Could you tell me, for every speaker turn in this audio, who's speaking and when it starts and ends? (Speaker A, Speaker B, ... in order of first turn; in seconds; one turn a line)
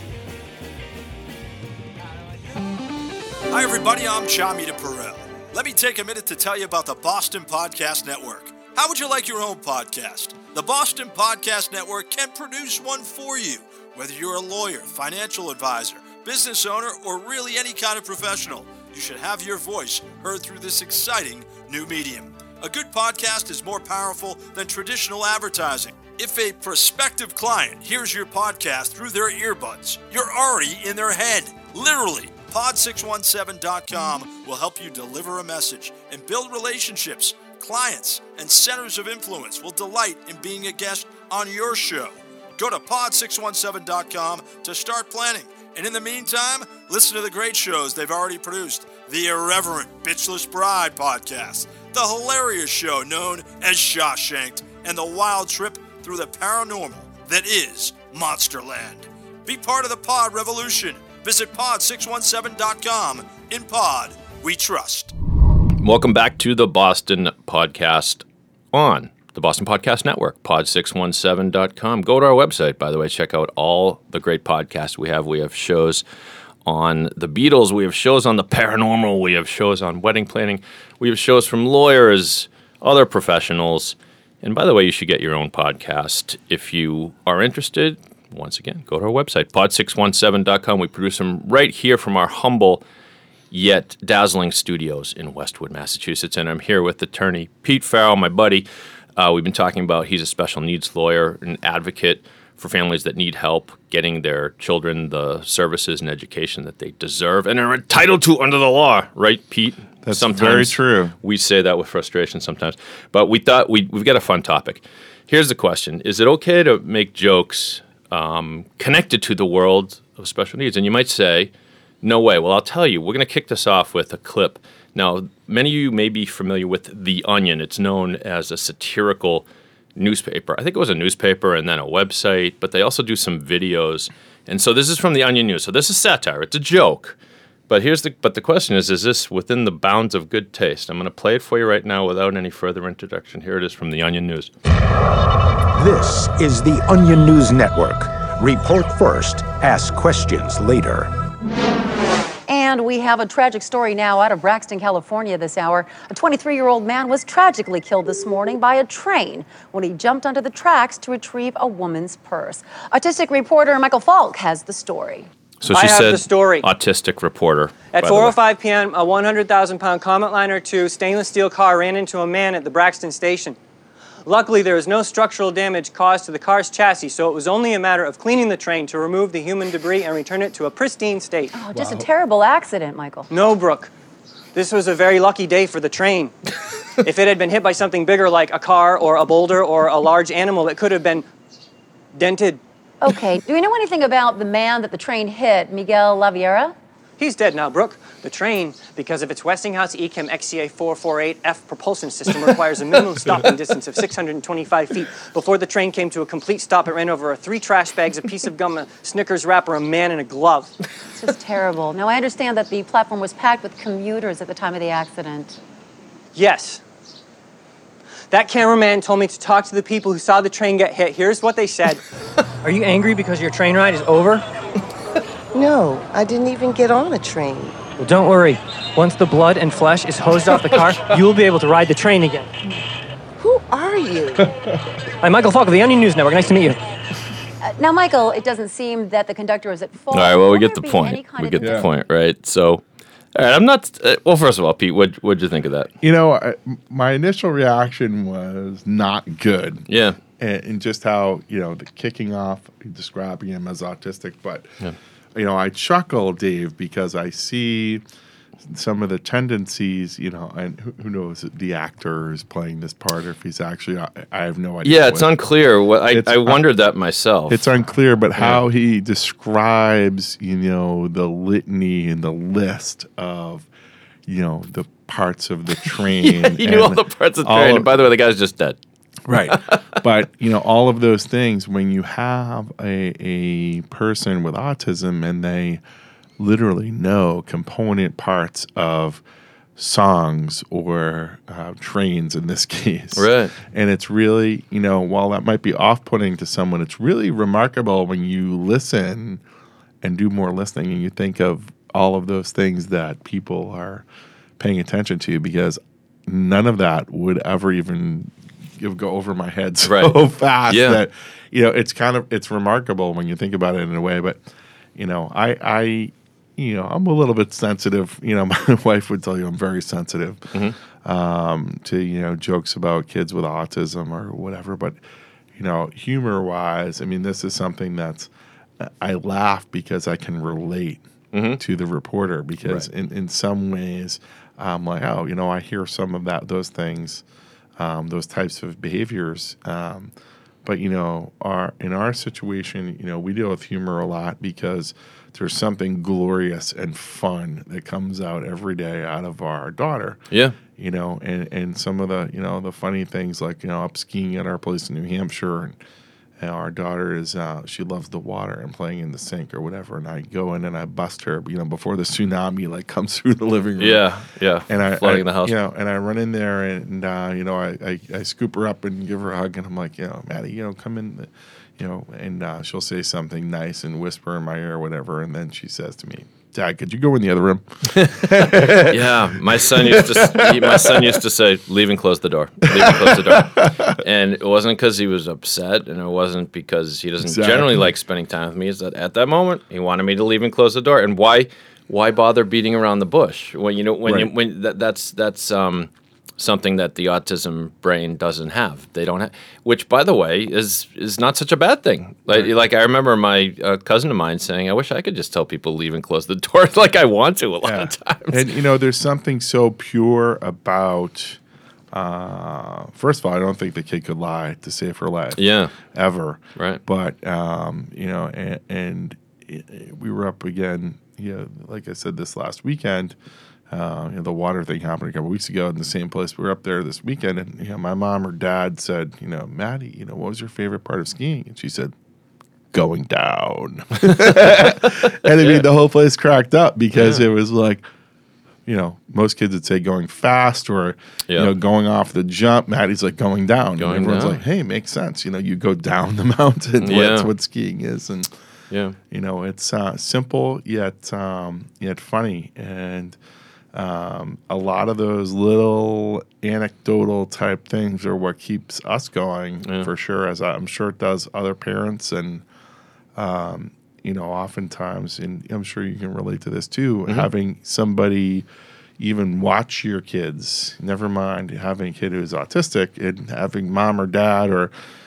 Speaker A: 3.5-65.1
Speaker B: 65.8-76.0
Speaker B: 76.6-92.8
Speaker B: 93.5-98.7
Speaker B: 99.2-121.5
Speaker C: 110.0-111.1
Speaker B: 122.0-137.2
Speaker B: 137.7-144.5
Speaker D: 145.7-151.1
Speaker E: 152.5-165.3
Speaker B: 165.6-168.3
Speaker F: 165.7-166.7
Speaker F: 167.9-173.6
Speaker F: 174.2-181.5
Speaker E: 181.5-183.3
Speaker C: 181.7-182.1
Speaker F: 183.3-183.9
Speaker F: 184.5-186.3
Speaker F: 187.0-191.2
Speaker F: 192.1-192.6
Speaker E: 193.0-196.7
Speaker F: 197.2-210.7
Speaker E: 211.1-215.6
Speaker F: 216.3-216.8
Speaker F: 218.3-222.0
Speaker F: 222.6-224.4
Speaker G: 225.5-227.8
Speaker F: 228.0-232.5
Speaker G: 233.4-234.5
Speaker C: 234.5-234.8
Speaker F: 235.2-236.8
Speaker E: 237.6-241.8
Speaker B: 240.1-242.8
Speaker C: 241.6-241.9
Speaker B: 243.3-245.9
Speaker C: 246.0-254.7
Speaker B: 249.9-250.2
Speaker C: 255.3-258.0
Speaker C: 258.6-265.4
Speaker B: 264.8-267.6
Speaker C: 266.1-266.6
Speaker C: 267.5-273.7
Speaker B: 268.4-268.6
Speaker C: 274.2-277.9
Speaker B: 275.8-278.8
Speaker C: 279.3-285.8
Speaker B: 279.3-280.0
Speaker C: 286.4-289.2
Speaker C: 289.8-299.4
Speaker B: 293.1-293.5
Speaker C: 300.0-304.0
Speaker C: 304.6-314.4
Speaker B: 309.8-310.1
Speaker B: 310.7-311.0
Speaker C: 314.9-325.0
Speaker C: 325.5-331.0
Speaker B: 331.3-331.6
Speaker C: 331.6-337.2
Speaker C: 337.8-340.1
Speaker C: 340.6-350.2
Speaker B: 350.3-350.6
Speaker C: 350.8-355.8
Speaker C: 356.4-364.0
Speaker B: 363.8-365.5
Speaker C: 364.7-381.2
Speaker B: 377.9-408.4
Speaker C: 382.7-383.9
Speaker C: 387.2-387.9
Speaker C: 394.1-394.3
Speaker C: 407.6-411.4
Speaker C: 411.9-423.1
Speaker B: 415.4-415.7
Speaker C: 423.7-431.9
Speaker C: 432.7-437.8
Speaker B: 434.2-434.7
Speaker B: 435.3-435.6
Speaker B: 436.9-437.2
Speaker C: 438.6-448.3
Speaker B: 443.8-444.4
Speaker B: 446.8-447.3
Speaker B: 448.7-449.0
Speaker C: 449.1-453.2
Speaker C: 453.7-462.4
Speaker C: 463.1-468.4
Speaker C: 469.0-474.7